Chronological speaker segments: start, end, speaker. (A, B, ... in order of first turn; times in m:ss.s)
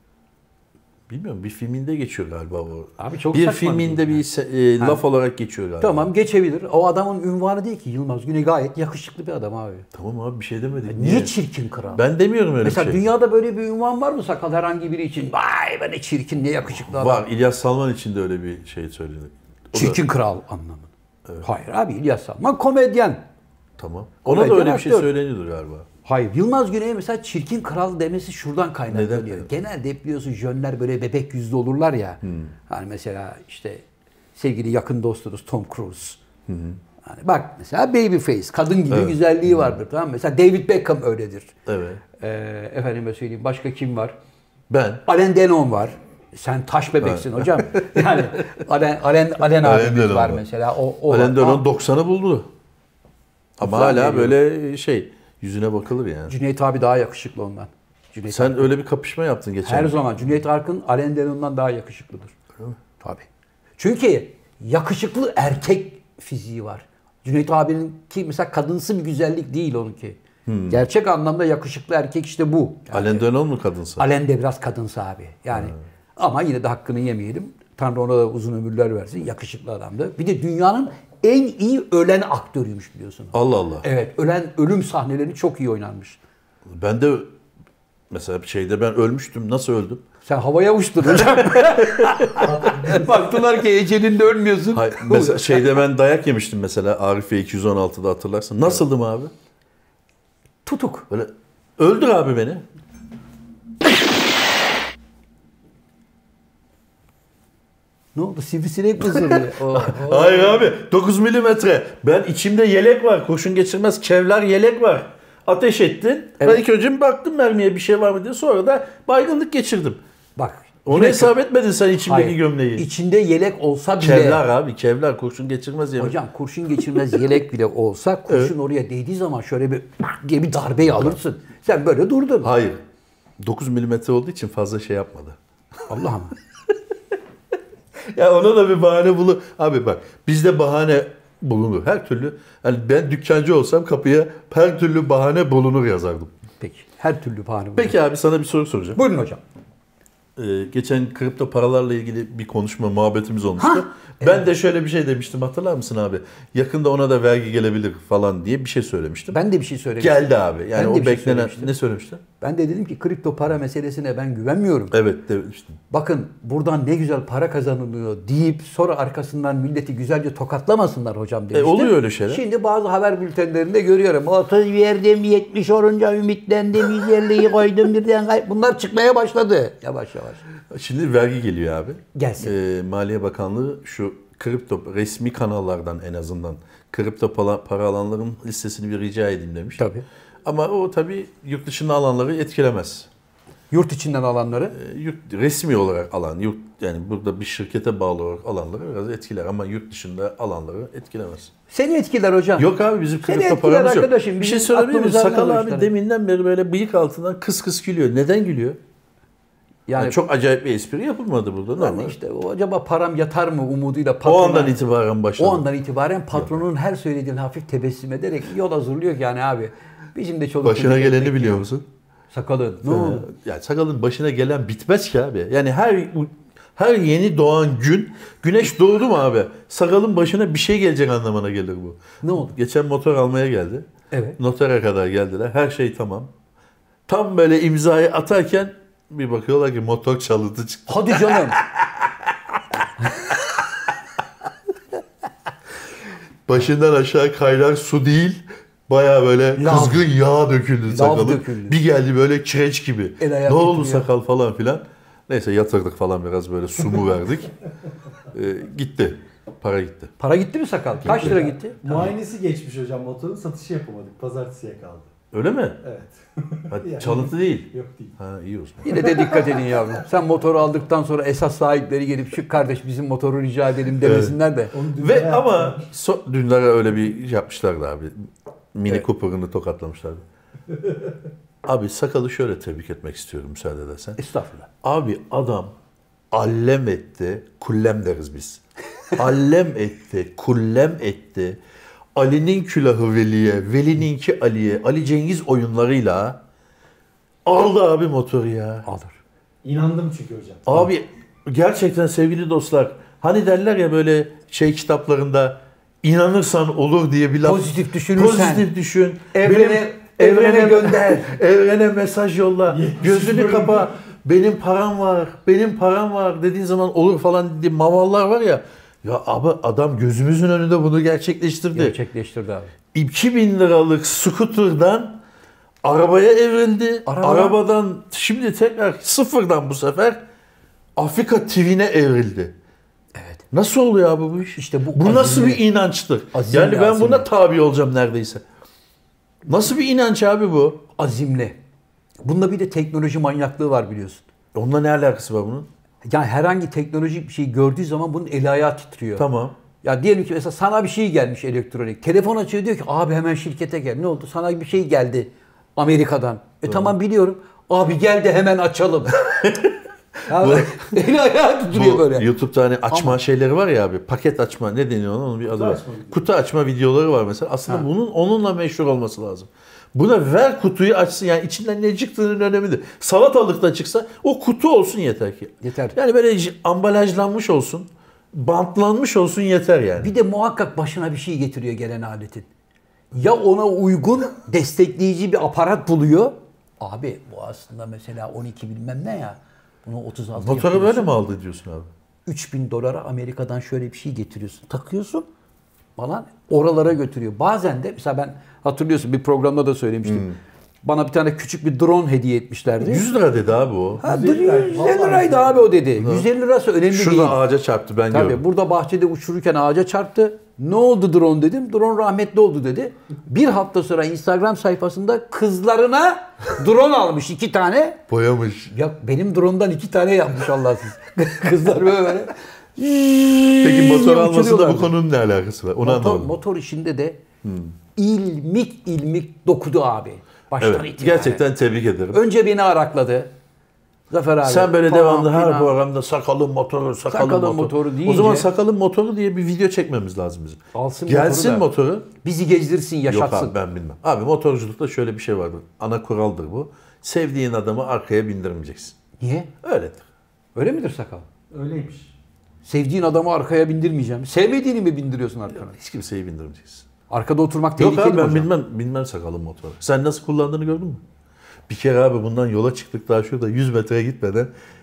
0:01.1-0:06.1 A
0:03.0-0:04.2 B
0:05.8-0:09.9 B
0:09.9-0:11.3 A
0:10.9-0:12.0 B
0:11.9-0:13.0 A
0:12.6-0:17.2 B
0:16.7-0:20.0 A
0:19.7-0:20.9 B
0:21.4-0:23.2 B
0:23.8-0:25.9 A
0:24.2-0:25.1 B
0:26.0-0:36.2 B
0:28.9-0:29.5 A
0:32.2-0:32.5 A
0:36.5-0:36.8 A
0:37.0-0:41.5 B
0:38.9-0:39.8 A
0:41.7-0:42.0 A
0:42.2-0:44.1 B
0:44.7-0:45.0 A
0:45.0-0:51.6 B
0:47.0-0:48.3 A
0:49.6-0:50.4 A
0:51.1-0:52.5 A
0:53.6-0:56.3 A
0:53.6-0:54.4 B
0:56.3-0:58.7 B
0:58.3-1:00.0 A
0:59.6-1:02.4 B
1:03.0-1:03.2 B
1:03.8-1:10.2 B
1:10.4-1:10.8 A
1:10.7-1:13.3 B
1:12.9-1:14.0 A
1:14.0-1:26.2 B
1:15.5-1:15.8 A
1:23.3-1:23.8 A
1:26.7-1:27.3 A
1:28.1-1:30.0 A
1:30.2-1:35.8 B
1:31.1-1:32.5 A
1:32.4-1:33.1 C
1:34.7-1:39.3 A
1:40.6-1:41.1 B
1:41.1-1:42.6 A
1:48.1-1:50.7 B
1:49.2-2:00.0 A
2:00.4-2:01.3 B
2:00.8-2:02.8 A
2:02.0-2:04.4 B
2:04.0-2:06.2 A
2:06.0-2:12.5 B
2:08.3-2:08.5 A
2:10.9-2:11.2 A
2:12.4-2:12.8 A
2:13.4-2:15.4 A
2:15.9-2:16.3 B
2:18.1-2:26.3 A
2:26.6-2:28.0 B
2:27.8-2:29.0 A
2:28.9-2:29.4 B
2:30.4-2:39.4 A
2:33.6-2:34.4 B
2:39.3-2:41.7 B
2:40.0-2:42.2 A
2:42.4-2:44.9 B
2:44.9-2:45.8 A
2:45.9-3:00.4 B
2:51.5-2:52.4 A
3:00.7-3:09.8 A
3:02.1-3:02.5 B
3:09.8-3:10.0 B
3:10.4-3:13.1 A
3:13.7-3:14.8 B
3:14.7-3:21.5 A
3:21.7-3:22.7 B
3:22.6-3:28.8 A
3:23.2-3:25.9 B
3:29.9-3:30.2 B
3:30.0-3:32.1 A
3:31.8-3:34.8 B
3:34.2-3:35.6 A
3:35.4-3:41.7 B
3:40.6-3:41.8 A
3:42.3-3:43.3 B
3:42.8-3:53.8 A
3:52.2-3:52.5 B
3:54.1-3:54.4 B
3:54.4-3:56.3 A
3:57.1-4:01.8 A
4:00.9-4:01.6 B
4:06.5-4:17.5 A
4:09.6-4:10.1 B
4:10.9-4:11.8 B
4:13.2-4:14.1 B
4:18.3-4:20.1 A
4:20.2-4:22.0 B
4:21.2-4:25.1 C
4:25.3-4:25.8 A
4:25.8-4:28.2 C
4:26.7-4:28.9 A
4:28.8-4:34.7 B
4:29.2-4:29.8 C
4:34.0-4:34.4 A
4:34.7-4:35.8 C
4:34.9-4:40.2 A
4:41.6-4:44.2 A
4:44.2-4:44.7 B
4:44.8-4:45.7 A
4:46.3-4:48.6 A
4:49.2-4:51.6 A
4:52.1-4:56.4 A
4:57.4-4:58.9 A
4:58.8-4:59.2 B
4:59.6-5:00.6 C
5:00.6-5:22.0 A
5:07.4-5:08.7 B
5:09.3-5:11.4 B
5:12.7-5:13.9 C
5:21.7-5:22.7 B
5:22.9-5:25.2 A
5:25.8-5:30.2 A
5:27.0-5:27.6 B
5:31.0-5:32.5 A
5:33.1-5:33.4 B
5:33.5-5:38.4 A
5:34.6-5:35.6 B
5:36.3-5:37.3 B
5:39.4-5:40.8 A
5:41.0-5:41.6 B
5:42.2-5:44.2 B
5:44.5-5:45.7 A
5:46.0-5:49.2 B
5:49.2-5:49.6 A
5:49.8-5:59.2 B
5:56.6-5:56.9 A
5:59.2-6:01.0 A
6:00.3-6:02.3 B
6:01.7-6:20.1 A
6:02.9-6:03.2 B
6:05.5-6:06.2 C
6:15.6-6:16.0 B
6:20.0-6:22.5 B
6:23.1-6:31.1 B
6:30.4-6:31.9 A
6:32.2-6:35.3 B
6:36.0-6:43.0 B
6:40.0-6:40.4 A
6:42.8-6:44.0 A
6:44.0-6:47.4 B
6:44.0-6:45.7 C
6:46.0-6:46.3 A
6:46.9-6:48.4 A
6:48.1-6:58.0 B
6:58.1-6:58.7 A
6:58.7-7:04.9 B
7:03.6-7:06.3 A
7:05.8-7:07.2 B
7:07.4-7:07.7 A
7:08.0-7:11.4 B
7:10.6-7:12.2 A
7:12.1-7:13.3 B
7:14.1-7:15.7 B
7:14.4-7:22.1 A
7:17.1-7:18.5 B
7:20.7-7:21.7 B
7:22.2-7:23.5 B
7:23.1-7:28.9 A
7:29.2-7:29.5 B
7:29.6-7:30.0 A
7:30.5-7:31.2 B
7:31.5-7:32.1 C
7:32.6-7:35.8 B
7:35.6-7:36.9 A
7:37.1-7:38.5 B
7:37.8-7:41.0 A
7:41.7-7:44.5 A